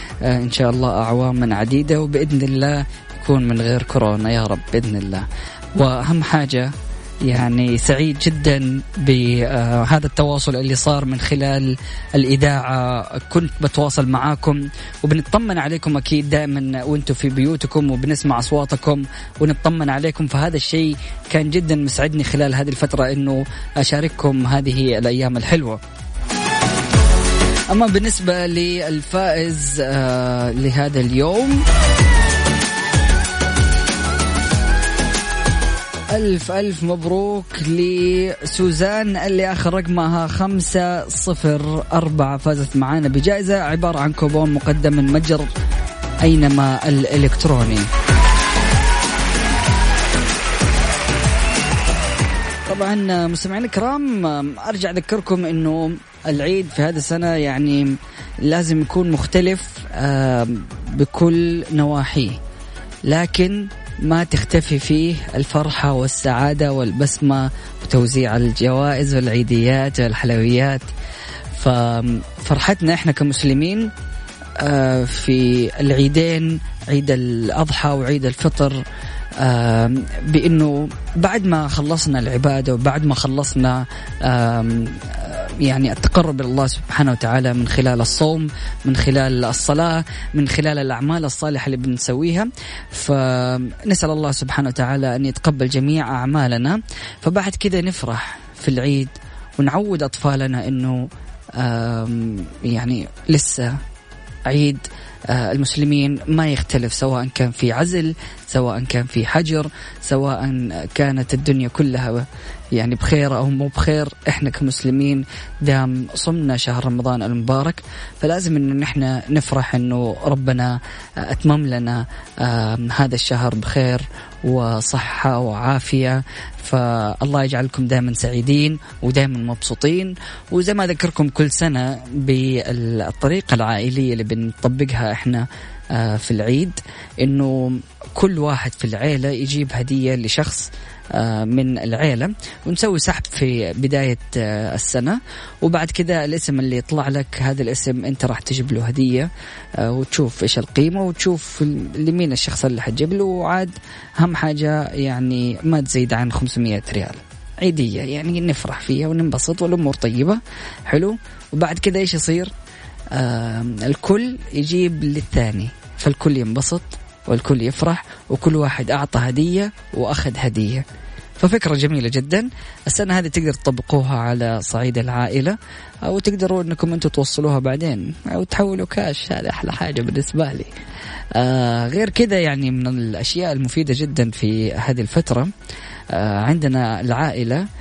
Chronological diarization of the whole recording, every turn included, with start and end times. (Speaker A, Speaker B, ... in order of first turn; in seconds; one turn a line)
Speaker A: 0.2-6.7
Speaker A: 7.2-25.8
Speaker A: 27.7-31.6
Speaker A: 36.1-45.5
Speaker A: 46.2-47.9
Speaker A: 52.7-62.4
Speaker A: 63.0-70.9
Speaker A: 71.5-73.9
Speaker A: 74.6-78.8
Speaker A: 79.4-101.0
Speaker A: 101.6-103.7
Speaker A: 104.5-112.2
Speaker A: 112.8-149.3
Speaker A: 149.8-162.5
Speaker A: 163.1-170.8
Speaker A: 171.4-180.7
Speaker A: 181.3-185.5
Speaker A: 186.1-187.6